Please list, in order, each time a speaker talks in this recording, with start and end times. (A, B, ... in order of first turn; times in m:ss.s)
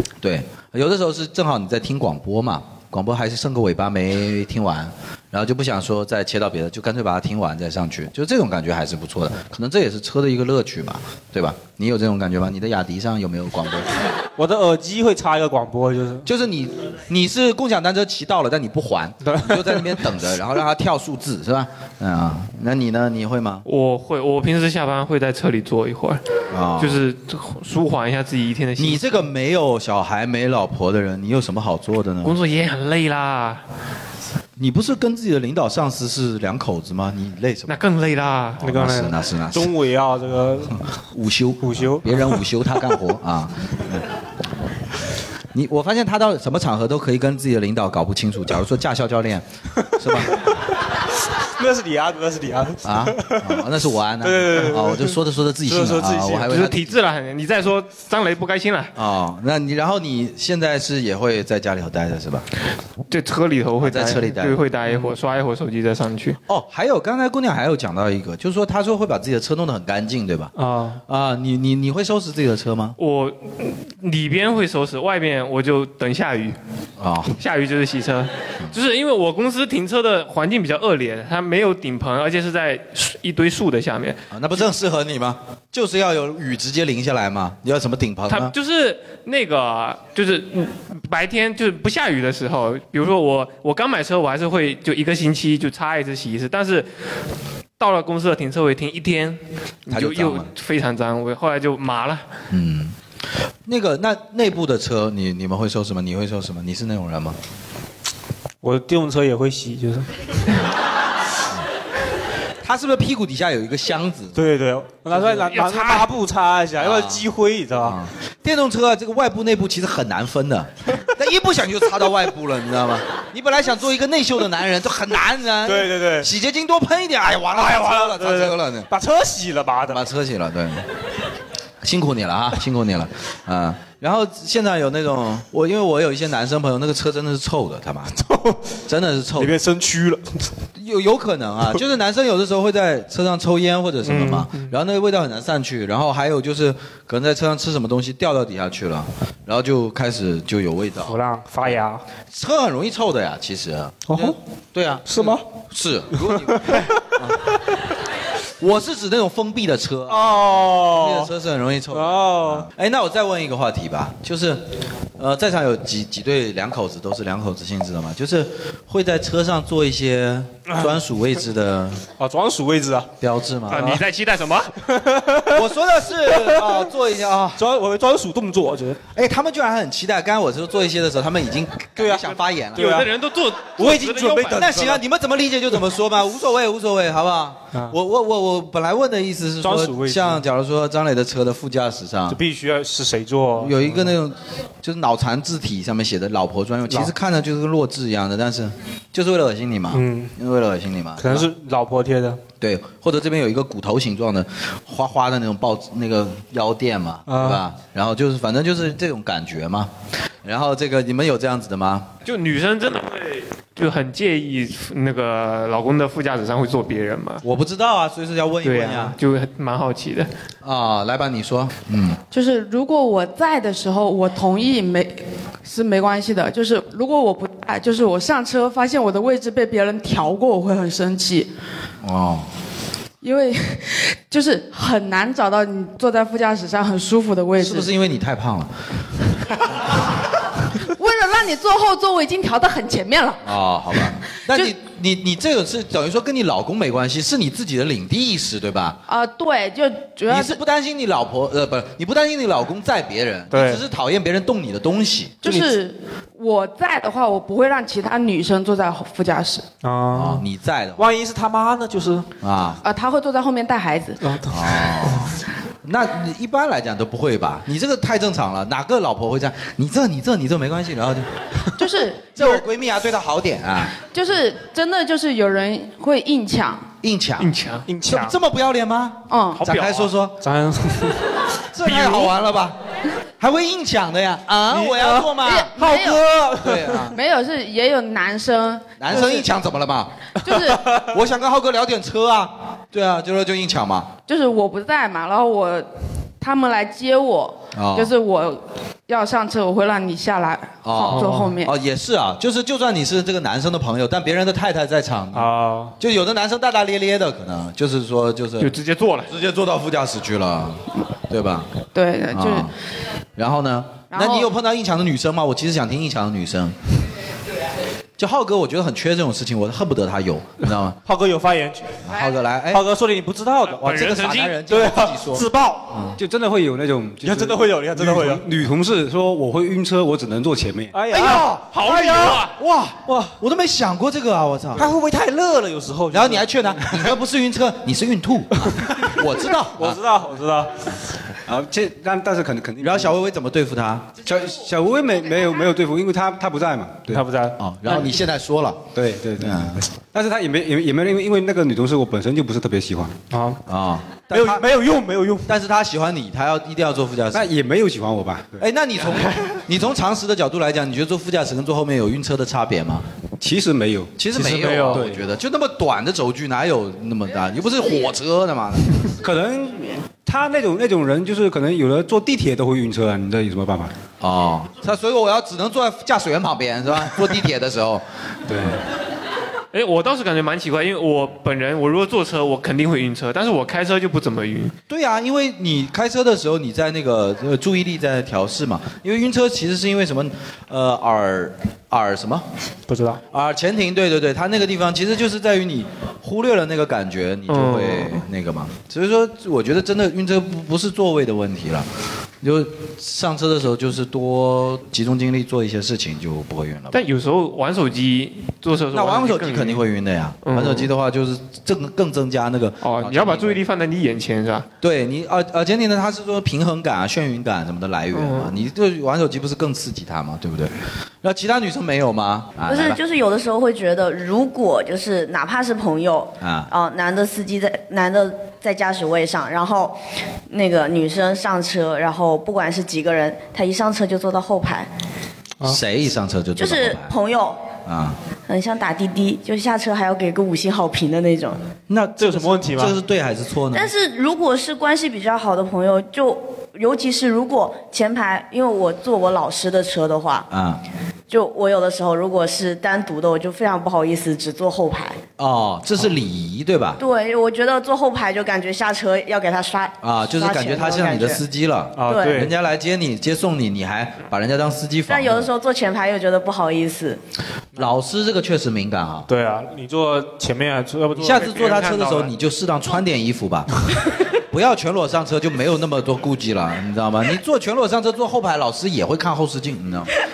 0:00.2-0:13.9 A
0:14.4-0:16.3 B
0:16.2-0:23.6 A
0:19.2-0:20.0 B
0:23.6-0:26.2 C
0:26.5-0:27.0 A
0:26.8-0:29.2 C
0:28.8-0:32.3 A
0:32.2-0:33.6 C
0:34.6-0:37.7 A
0:37.7-0:38.6 C
0:38.6-0:39.7 A
0:38.6-0:40.8 B
0:41.1-0:44.1 A
0:41.6-0:42.4 B
0:45.5-0:50.4 A
0:50.2-0:50.5 B
0:51.4-0:53.6 B
0:52.8-0:56.9 A
0:54.2-0:56.5 B
0:56.5-0:58.9 C
0:58.9-1:02.4 A
1:03.1-1:06.4 C
1:03.8-1:04.6 A
1:06.5-1:10.5 A
1:10.5-1:11.0 B
1:11.1-1:13.0 A
1:13.0-1:16.6 C
1:17.0-1:17.4 A
1:17.4-1:24.2 C
1:24.3-1:28.5 A
1:28.3-1:36.9 C
1:37.8-1:42.2 C
1:39.9-1:40.5 A
1:42.5-1:42.9 A
1:43.6-1:47.4 A
1:48.6-1:50.1 B
1:52.6-1:54.4 A
1:54.3-1:58.0 B
1:55.5-1:56.1 C
1:56.8-1:57.2 A
1:57.8-2:08.9 A
2:05.6-2:06.3 B
2:07.5-2:10.0 B
2:09.9-2:10.8 A
2:11.8-2:18.2 A
2:18.2-2:18.6 B
2:18.9-2:19.5 A
2:19.4-2:20.4 B
2:20.8-2:31.8 A
2:24.0-2:24.7 B
2:31.0-2:32.0 B
2:32.3-2:37.4 A
2:34.1-2:34.4 B
2:35.0-2:35.4 B
2:36.2-2:37.0 B
2:38.6-2:44.6 A
2:40.1-2:41.3 B
2:41.9-2:42.7 B
2:45.2-2:52.0 A
2:50.7-2:51.0 B
2:52.2-2:53.1 B
2:53.2-2:54.0 A
2:53.7-2:54.7 C
2:54.8-2:55.6 B
2:55.5-2:57.6 A
2:56.3-2:56.8 B
2:57.6-2:59.0 B
2:59.1-3:03.1 A
3:02.0-3:05.0 B
3:02.8-3:04.6 C
3:04.5-3:12.4 A
3:09.6-3:10.4 B
3:12.3-3:14.1 B
3:13.6-3:21.5 A
3:16.9-3:17.1 B
3:19.9-3:20.3 B
3:21.2-3:22.4 B
3:22.6-3:29.9 A
3:27.3-3:27.6 B
3:30.4-3:32.1 A
3:32.2-3:37.4 C
3:37.4-3:39.2 A
3:38.6-3:40.3 C
3:40.6-3:42.2 A
3:42.3-3:51.5 D
3:52.0-3:52.5 A
3:53.2-3:57.9 D
3:57.6-3:58.7 A
4:00.9-4:03.4 D
4:03.4-4:09.0 A
4:09.1-4:10.6 D
4:10.3-4:15.4 A
4:13.5-4:13.8 B
4:15.4-4:19.7 D
4:15.4-4:15.7 B
4:19.8-4:20.4 B
4:20.1-4:21.0 A
4:21.0-4:22.3 B
4:22.4-4:22.8 A
4:22.8-4:24.2 D
4:24.2-4:25.3 B
4:24.5-4:31.3 A
4:31.8-4:32.6 D
4:32.3-4:33.9 A
4:34.0-4:36.9 D
4:37.0-4:37.5 A
4:37.4-4:37.9 C
4:37.9-4:38.4 B
4:38.0-4:40.4 A
4:39.3-4:39.6 D
4:39.6-4:40.1 C
4:40.4-4:41.2 B
4:41.7-4:42.8 A
4:41.9-4:42.2 B
4:43.4-4:45.8 A
4:44.7-4:47.1 B
4:45.3-4:46.2 D
4:46.6-4:47.1 A
4:47.1-4:49.1 D
4:49.0-4:50.1 A
4:50.4-4:50.8 D
4:50.4-4:51.0 B
4:50.9-4:54.1 A
4:54.3-4:55.9 D
4:56.4-5:01.7 D
4:57.7-4:58.1 A
5:00.8-5:08.7 A
5:01.1-5:01.6 B
5:05.3-5:05.9 B
5:08.6-5:09.3 C
5:09.3-5:11.7 A
5:11.9-5:12.7 D
5:12.3-5:12.7 A
5:13.4-5:16.8 A
5:14.1-5:14.5 D
5:18.2-5:21.0 A
5:21.0-5:22.0 B
5:22.0-5:22.8 A
5:22.7-5:23.8 B
5:23.7-5:24.6 C
5:23.8-5:26.2 A
5:24.7-5:26.1 B
5:26.2-5:31.0 E
5:27.2-5:28.4 B
5:30.9-5:31.7 B
5:31.1-5:34.8 A
5:31.6-5:32.5 C
5:34.7-5:37.1 B
5:36.1-5:40.0 A
5:38.7-5:40.8 B
5:41.5-5:43.1 E
5:42.8-5:44.1 A
5:44.2-5:47.2 E
5:47.1-5:48.0 B
5:47.6-5:48.8 A
5:48.9-5:53.2 E
5:49.4-5:49.8 A
5:53.3-5:53.6 B
5:53.7-5:54.6 A
5:54.3-5:55.5 B
5:55.4-5:57.5 A
5:57.3-5:58.6 E
5:58.6-6:03.0 A
6:03.4-6:04.1 E
6:04.2-6:09.0 A
6:04.3-6:05.0 B
6:04.9-6:05.2 E
6:09.2-6:13.9 E
6:14.2-6:18.0 A
6:18.5-6:18.8 E
6:19.7-6:24.7 C
6:24.9-6:32.4 A
6:32.9-6:33.2 B
6:33.3-6:41.9 A
6:37.5-6:38.2 C
6:42.4-6:47.0 A
6:46.9-6:49.8 C
6:48.9-6:53.6 A
6:50.4-6:50.9 C
6:52.8-6:54.7 C
6:54.8-7:03.0 A
6:58.1-6:58.6 C
7:02.7-7:10.0 F
7:06.4-7:06.7 A
7:10.5-7:14.9 F
7:15.6-7:17.1 A
7:16.6-7:17.6 F
7:17.8-7:18.2 A
7:18.5-7:21.6 F
7:21.9-7:23.9 A
7:22.2-7:23.0 B
7:23.7-7:30.5 F
7:30.5-7:30.8 A
7:31.3-7:35.2 F
7:35.4-7:37.0 A
7:37.0-7:41.4 F
7:40.0-7:45.5 A
7:42.0-7:42.6 B
7:42.0-7:42.4 F
7:45.1-7:47.2 F
7:47.8-7:49.3 A
7:49.3-7:51.9 B
7:51.2-7:53.7 A
7:51.3-7:52.3 C
7:54.5-8:00.1 A